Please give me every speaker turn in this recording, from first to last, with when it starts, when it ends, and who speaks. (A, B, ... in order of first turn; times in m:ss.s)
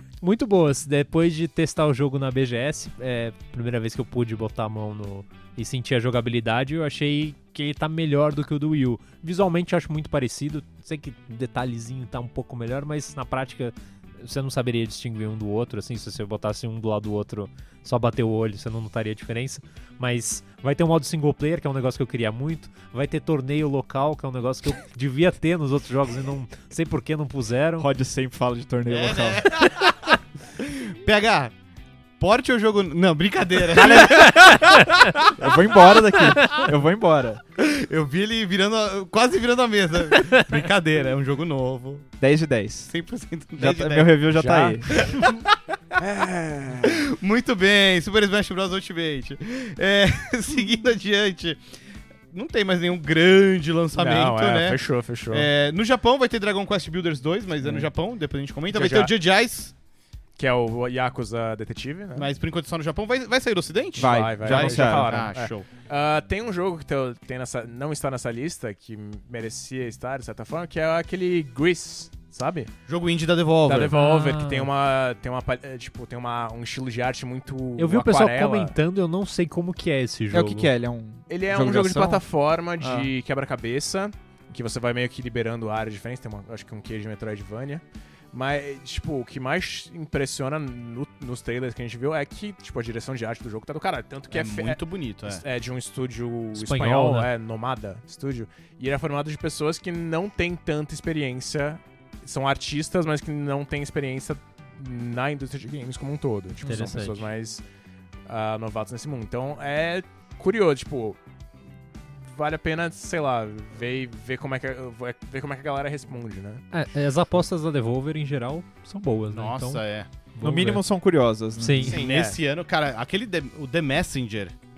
0:00.2-0:27.9 A
0:27.8-0:29.5 B
0:28.9-0:31.5 C
0:32.2-0:34.6 C
0:33.7-0:37.4 B
0:37.6-0:42.1 C
0:42.2-0:42.9 B
0:42.9-0:44.2 C
0:43.6-0:45.0 B
0:44.3-0:44.8 D
0:45.0-0:45.4 C
0:46.0-0:47.0 D
0:46.8-0:51.6 C
0:52.3-0:59.7 C
0:53.9-0:55.5 D
0:58.7-0:59.1 D
1:00.4-1:02.3 D
1:02.1-1:05.7 C
1:04.0-1:05.1 B
1:04.0-1:12.7 D
1:12.9-1:13.9 C
1:13.6-1:18.7 D
1:13.8-1:14.7 A
1:17.8-1:20.7 A
1:20.3-1:22.2 B
1:21.3-1:47.6 D
1:22.8-1:23.1 B
1:34.3-1:35.4 C
1:36.5-1:37.3 A
1:46.6-1:47.3 A
1:48.2-1:51.2 D
1:52.1-1:56.6 D
1:56.7-1:59.8 A
1:59.3-2:00.1 C
2:00.3-2:00.8 A
2:00.4-2:02.0 B
2:01.6-2:02.0 A
2:01.8-2:02.4 D
2:01.8-2:04.5 C